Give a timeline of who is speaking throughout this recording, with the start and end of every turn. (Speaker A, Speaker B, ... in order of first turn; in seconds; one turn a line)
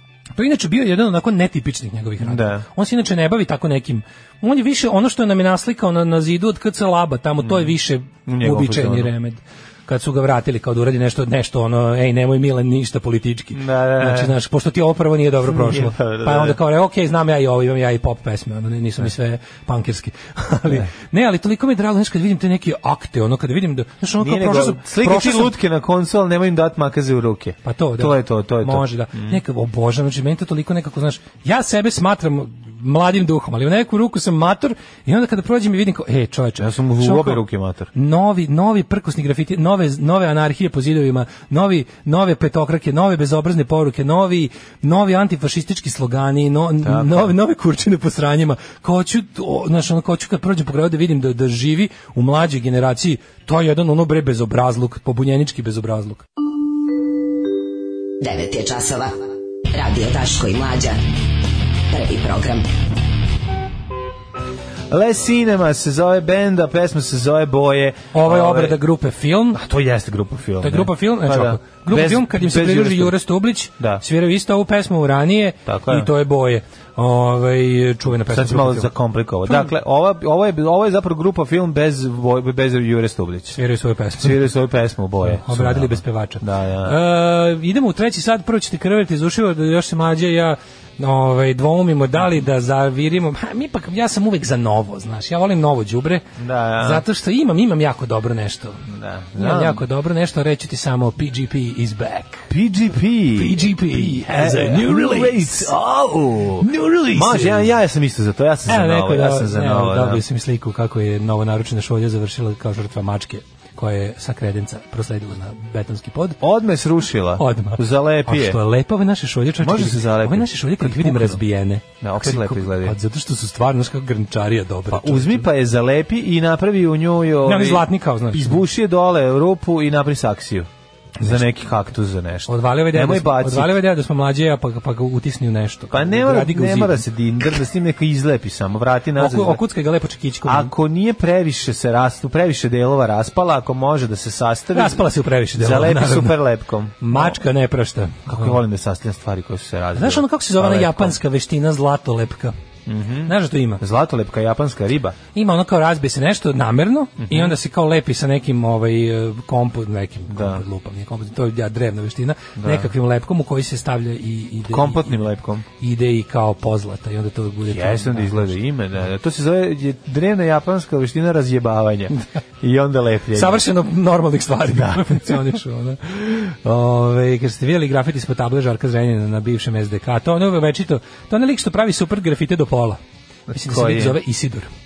Speaker A: 0.3-25.5
Speaker B: 2.2-2.6
Speaker B: 7.4-7.7
Speaker B: 8.2-9.1
Speaker B: 13.5-14.3
Speaker B: 15.4-16.6
Speaker B: 24.2-29.4
Speaker A: 27.6-56.2
Speaker B: 36.6-37.9
Speaker B: 46.8-47.3
Speaker C: 58.2-59.1
Speaker C: 59.7-61.0
Speaker C: 61.9-62.7
Speaker B: 64.9-68.8
Speaker A: 68.1-69.6
Speaker B: 69.5-73.1
Speaker A: 70.6-78.9
Speaker B: 75.7-76.1
Speaker B: 78.3-83.6
Speaker A: 83.5-84.4
Speaker B: 84.2-87.0
Speaker A: 85.2-96.2
Speaker B: 96.4-97.0
Speaker A: 96.8-98.8
Speaker B: 98.9-99.8
Speaker A: 99.3-102.5
Speaker B: 102.5-110.2
Speaker A: 103.3-105.7
Speaker A: 106.6-107.7
Speaker A: 108.7-116.4
Speaker B: 116.4-118.6
Speaker A: 117.4-125.5
Speaker B: 119.6-121.4
Speaker B: 122.0-123.0
Speaker B: 124.9-130.7
Speaker A: 127.4-128.6
Speaker B: 131.2-133.7
Speaker A: 132.5-137.5
Speaker B: 135.9-139.6
Speaker A: 139.2-140.7
Speaker B: 140.4-147.4
Speaker A: 144.7-146.4
Speaker A: 147.0-148.6
Speaker B: 148.3-151.2
Speaker A: 149.9-152.5
Speaker B: 152.8-155.2
Speaker A: 153.2-153.8
Speaker A: 155.3-165.2
Speaker B: 157.2-157.6
Speaker B: 160.3-160.6
Speaker B: 162.6-162.9
Speaker B: 164.7-165.7
Speaker A: 165.8-168.6
Speaker B: 167.7-173.7
Speaker A: 173.3-184.7
Speaker B: 174.7-175.4
Speaker B: 183.5-184.2